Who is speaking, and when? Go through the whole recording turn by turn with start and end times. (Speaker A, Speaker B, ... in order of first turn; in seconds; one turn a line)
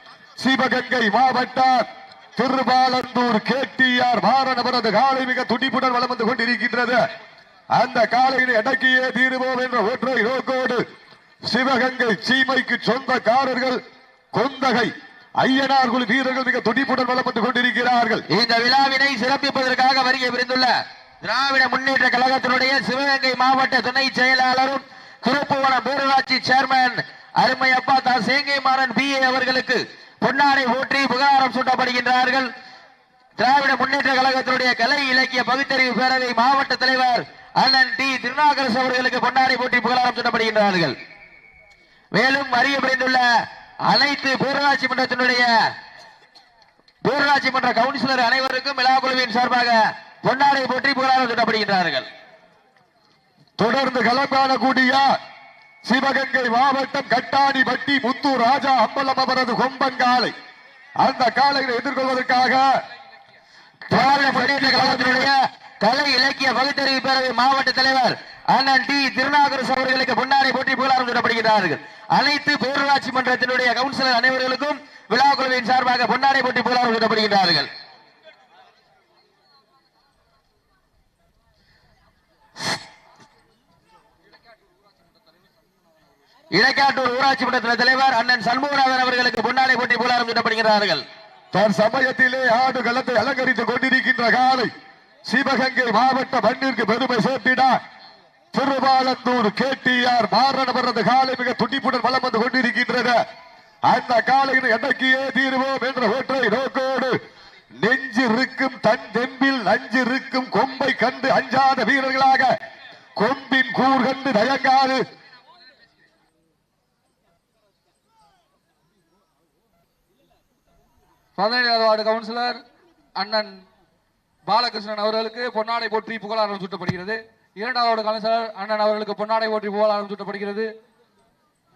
Speaker A: 0.4-7.0
Speaker A: 7.8-10.8
Speaker A: 11.5-13.8
Speaker A: 14.3-18.2
Speaker B: 18.3-20.7
Speaker B: 21.2-32.5
Speaker B: 33.4-41.0
Speaker B: 42.1-43.2
Speaker B: 43.9-45.5
Speaker B: 47.0-52.1
Speaker A: 53.6-55.1
Speaker A: 55.9-60.3
Speaker A: 61.0-62.6
Speaker A: 63.9-65.3
Speaker B: 63.9-77.7
Speaker B: 86.5-91.0
Speaker A: 91.5-94.7
Speaker A: 95.3-97.8
Speaker A: 98.5-103.2
Speaker A: 103.9-107.2
Speaker A: 107.8-112.5
Speaker A: 113.2-115.0
Speaker C: 121.4-122.6
Speaker C: 123.2-123.5
Speaker C: 124.5-130.7